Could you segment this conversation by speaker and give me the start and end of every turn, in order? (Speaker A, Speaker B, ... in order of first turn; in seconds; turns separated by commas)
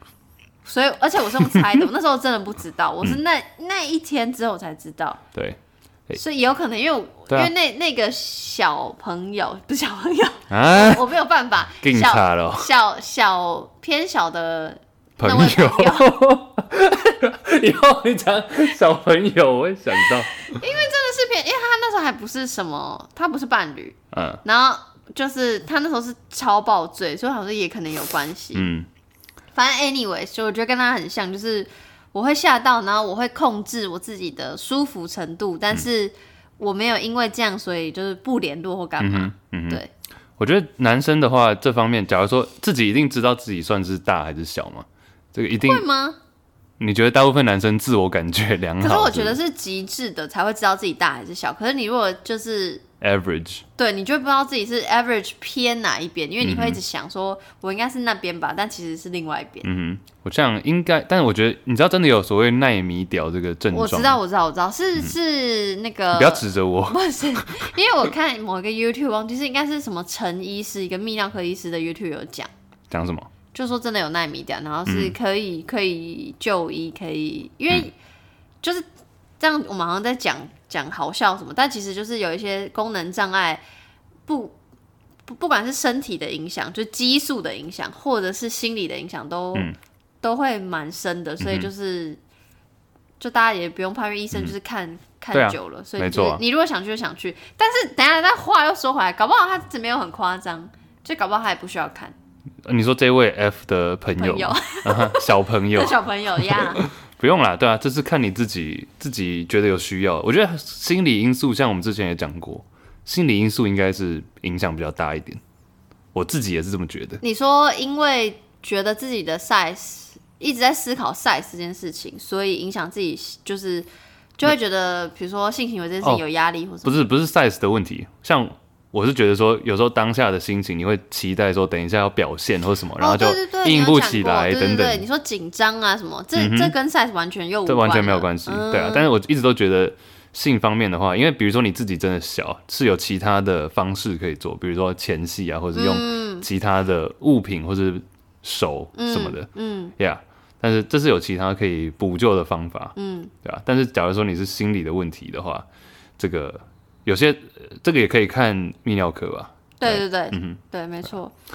Speaker A: 0.6-5.2, Speaker B: 5.3-6.2, Speaker A: 6.1-16.1, Speaker B: 10.5-11.0, Speaker B: 11.8-12.7, Speaker B: 15.2-20.4, Speaker A: 20.5-28.7, Speaker B: 24.1-24.4, Speaker B: 28.5-28.9, Speaker A: 29.5-39.9, Speaker B: 39.0-39.8, Speaker B: 40.4-45.8, Speaker A: 45.6-46.2, Speaker B: 46.8-49.4, Speaker A: 48.8-52.8, Speaker B: 53.0-53.6, Speaker A: 53.8-59.7, Speaker B: 56.4-56.8, Speaker B: 59.6-64.2, Speaker A: 63.7-72.5, Speaker B: 66.1-67.7, Speaker B: 72.9-73.3, Speaker A: 73.5-78.0, Speaker B: 74.8-75.2, Speaker A: 79.4-83.6, Speaker A: 84.3-84.5, Speaker A: 85.2-89.7, Speaker A: 90.2-92.2, Speaker B: 91.4-91.7, Speaker A: 93.2-102.1, Speaker B: 95.3-96.4, Speaker B: 102.6-115.4, Speaker A: 104.2-106.8, Speaker B: 116.1-117.2, Speaker A: 117.2-127.0, Speaker B: 126.8-135.0, Speaker A: 133.0-139.1, Speaker B: 136.3-136.7, Speaker B: 137.7-155.7, Speaker A: 145.7-146.4, Speaker A: 148.9-149.9, Speaker A: 152.9-153.3, Speaker B: 156.2-160.6, Speaker A: 159.8-161.3